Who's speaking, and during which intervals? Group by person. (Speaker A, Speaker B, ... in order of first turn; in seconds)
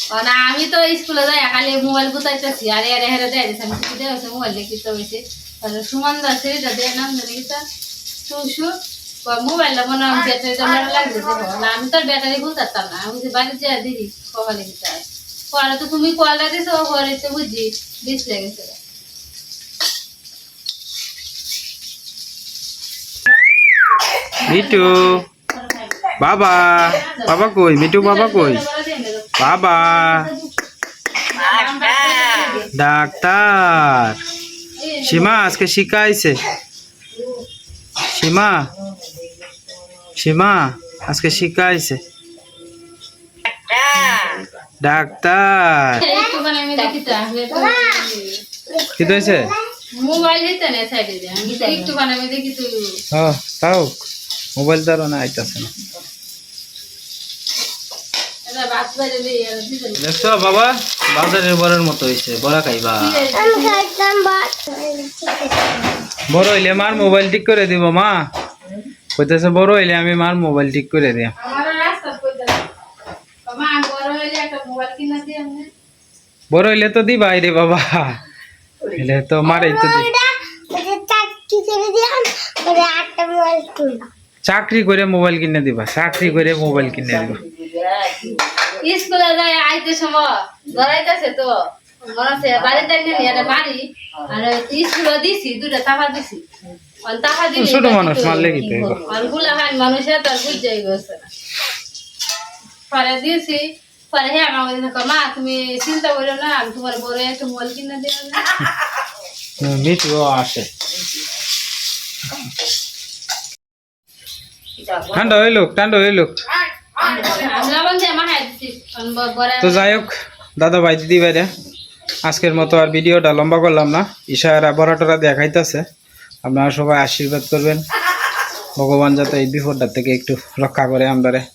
Speaker A: 0.1-7.6, 8.3-8.7, 9.2-18.8, 24.4-30.5, 31.2-32.7, 34.8-35.6, 46.0-48.4, 49.9-53.0, 58.5-60.3, 63.0-63.8, 71.4-72.6, 73.5-75.7, 88.8-96.4, 97.0-98.5, 99.1-101.3, 102.9-108.5, 117.0-120.0
Speaker B: 10.6-11.4, 46.0-46.4, 47.5-48.1, 48.6-49.7, 63.3-66.1, 79.4-84.1
Speaker C: 24.4-25.2, 26.2-28.6, 29.4-30.3, 32.7-34.2, 35.0-36.4, 38.1-38.7, 40.2-42.0, 44.8-46.0, 49.0-49.5, 53.1-54.0, 54.6-55.7, 60.0-63.3, 66.3-68.3, 69.2-71.3, 76.5-78.2, 79.0-80.1, 84.5-87.4, 97.5-99.0, 109.6-110.7, 115.1-116.4, 119.6-121.5, 122.3-125.8, 126.4-127.8, 128.8-131.5
Speaker D: 31.4-32.6, 38.7-41.5, 43.6-44.5, 46.8-47.0, 51.4-52.0, 68.6-68.9, 78.8-79.0, 86.1-89.1, 92.4-93.6, 94.1-94.5, 98.2-99.6, 110.9-111.3, 114.8-115.5, 117.0-117.7